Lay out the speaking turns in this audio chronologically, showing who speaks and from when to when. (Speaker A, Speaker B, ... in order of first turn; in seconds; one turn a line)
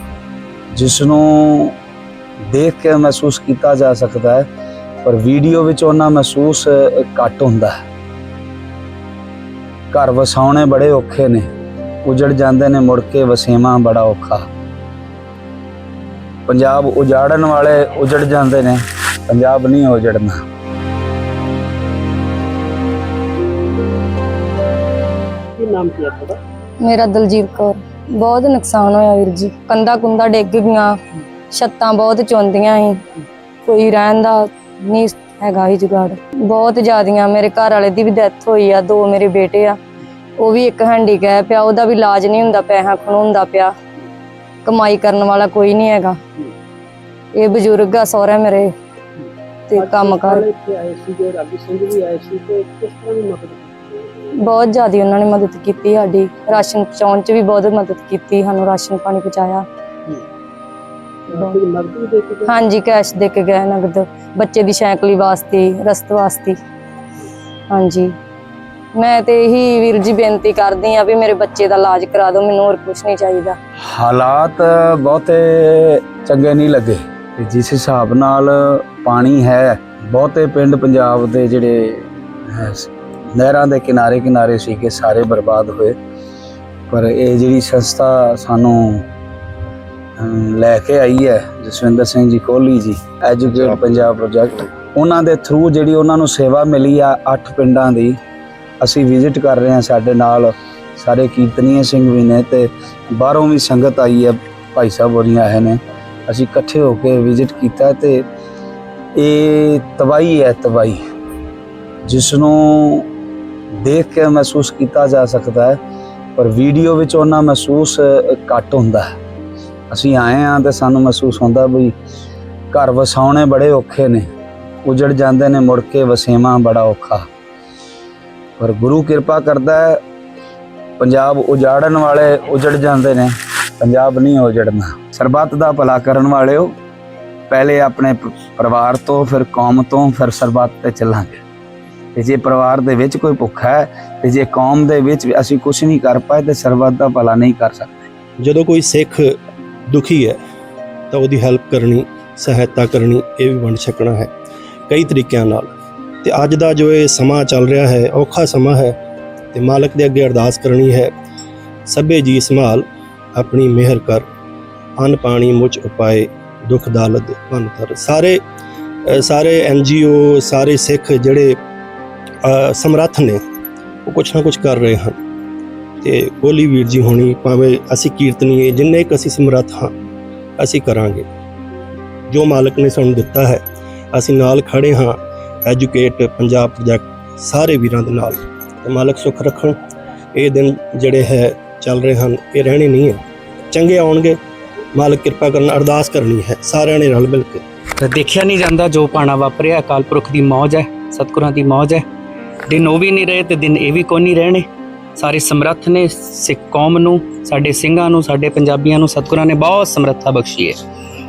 Speaker A: 0.7-1.7
Speaker A: 2.5-4.5
Speaker A: 5.0-7.7
Speaker A: 9.9-11.5
Speaker A: 12.1-14.4
Speaker A: 16.5-20.4
Speaker B: 25.6-26.4
Speaker C: 26.8-31.0
Speaker C: 31.5-33.0
Speaker C: 33.6-39.8
Speaker C: 40.4-43.7
Speaker C: 44.6-46.2
Speaker C: 47.4-48.7
Speaker C: 49.7-50.5
Speaker B: 49.7-54.3
Speaker C: 54.5-59.6
Speaker B: 61.3-62.5
Speaker C: 62.5-66.6
Speaker C: 67.7-68.1
Speaker C: 69.0-73.6
Speaker A: 73.9-86.0
Speaker A: 86.9-89.0
Speaker A: 90.2-98.2
Speaker A: 98.8-108.2
Speaker A: 109.2-111.0
Speaker A: 112.1-113.1
Speaker A: 113.8-115.8
Speaker A: 116.4-119.1
Speaker A: 119.9-121.9
Speaker A: 122.7-124.3
Speaker A: 124.8-127.2
Speaker A: 128.6-130.0
Speaker A: 131.0-136.7
Speaker A: 137.5-141.4
Speaker A: 142.2-148.1
Speaker D: 148.4-149.4
Speaker D: 149.9-150.4
Speaker D: 151.1-154.3
Speaker D: 154.9-155.7
Speaker D: 156.2-159.0
Speaker D: 159.5-161.1
Speaker D: 161.9-164.2
Speaker D: 165.0-168.4
Speaker D: 169.1-171.6
Speaker D: 172.4-173.4
Speaker D: 174.1-175.2
Speaker D: 176.0-179.9
Speaker D: 180.6-181.2
Speaker D: 182.3-183.6
Speaker D: 184.1-189.8
Speaker D: 190.3-193.2
Speaker D: 193.7-194.4
Speaker D: 194.9-197.6
Speaker E: 198.0-202.0
Speaker E: 202.7-204.7
Speaker E: 205.2-210.8